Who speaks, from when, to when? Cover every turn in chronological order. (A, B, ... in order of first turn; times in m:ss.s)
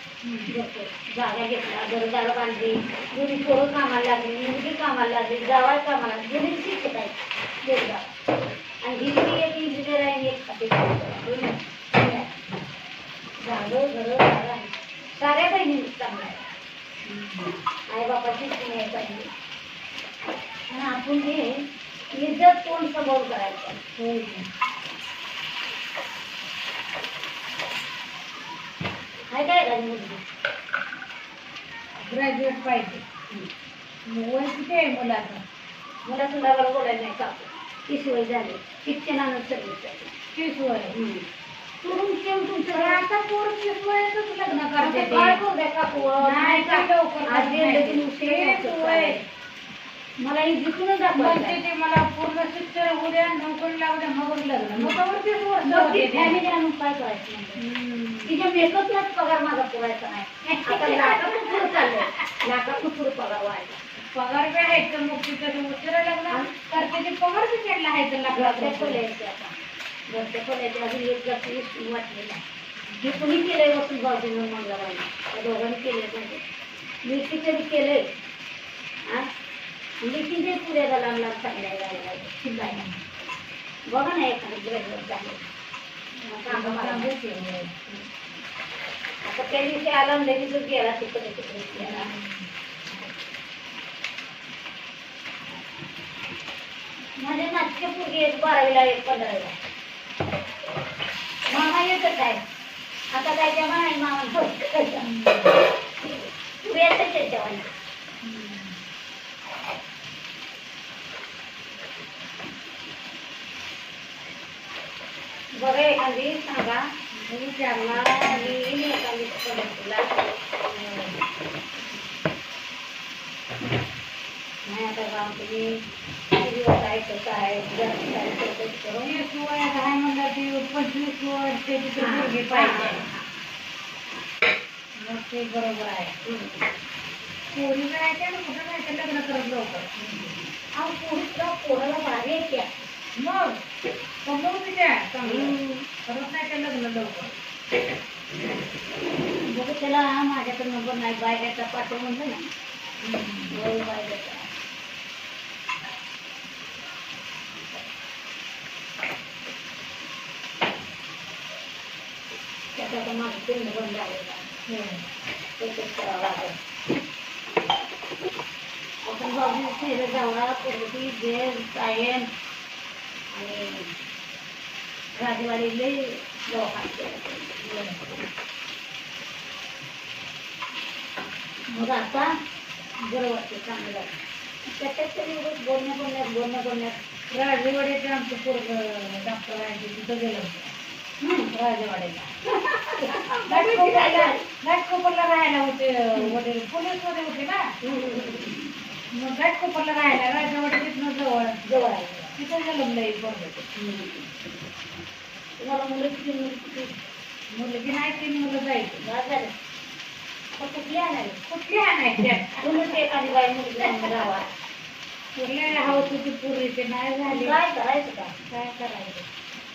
0:00.2-0:00.5 A
0:00.5-0:08.1 B
0:08.8-0:12.3 B
0:13.4-0:16.5 B
0:17.0-0:17.5 A
0:17.9-0:19.3 B
0:20.7-0:23.8 B
0:24.0-0:24.5 A
0:29.3-0:30.2 B
0:32.0-0:33.0 A
0:34.0-0:35.4 A
0:36.0-0:40.1 B
0:40.3-0:40.9 A
0:40.9-0:41.2 B
0:41.8-0:43.0 B
0:42.7-0:45.4 A
0:44.8-0:49.2 B
0:46.2-0:49.2 A
0:50.2-0:51.6 B
0:51.1-0:56.4 A
0:54.8-0:55.0 B
0:55.6-0:57.6 B
0:57.6-0:58.4 A
0:58.2-1:03.8 B
1:00.4-1:02.2 A
1:04.1-1:09.0 A
1:08.3-1:09.5 B
1:10.1-1:12.4 B
1:12.8-1:13.2 A
1:13.0-1:16.4 B
1:17.0-1:18.0 B
1:20.0-1:22.8 B
1:22.5-1:23.0 A
1:23.9-1:25.4 B
1:26.2-1:27.1 B
1:26.5-1:27.9 A
1:29.2-1:32.1 B
1:31.8-1:32.5 A
1:37.2-1:39.6 B
1:41.5-1:42.4 B
1:43.1-1:45.1 B
1:45.0-1:45.6 A
1:46.6-1:47.6 B
1:48.2-1:48.8 A
1:55.5-1:56.8 B
1:57.1-1:58.6 A
1:57.7-2:00.1 B
2:00.7-2:01.2 A
2:04.6-2:05.8 B
2:06.3-2:09.2 B
2:09.0-2:13.0 A
2:12.0-2:13.2 B
2:15.0-2:16.1 A
2:16.2-2:16.6 B
2:17.5-2:20.5 A
2:20.7-2:22.9 B
2:23.2-2:23.6 A
2:24.2-2:27.3 A
2:25.3-2:25.8 B
2:29.5-2:32.5 B
2:33.0-2:33.6 A
2:33.5-2:34.5 B
2:42.7-2:44.5 B
2:44.7-2:45.0 A
2:45.6-2:46.6 B
2:49.0-2:52.3 B
2:53.3-2:53.9 B
2:55.2-2:57.6 B
2:57.6-2:58.0 A
3:01.7-3:02.3 B
3:03.0-3:07.0 B
3:07.3-3:10.7 A
3:11.2-3:11.5 B
3:11.5-3:12.3 A
3:12.8-3:17.7 A
3:12.9-3:14.4 B
3:17.8-3:18.6 B
3:19.1-3:21.6 A
3:21.6-3:22.3 B
3:22.4-3:23.6 A
3:23.8-3:24.2 B
3:25.6-3:27.0 B
3:27.5-3:29.0 A
3:29.0-3:29.5 B
3:30.6-3:31.4 B
3:31.5-3:32.7 A
3:32.6-3:34.5 B
3:35.4-3:37.6 A
3:35.7-3:36.1 B
3:37.3-3:38.4 B
3:38.5-3:39.2 A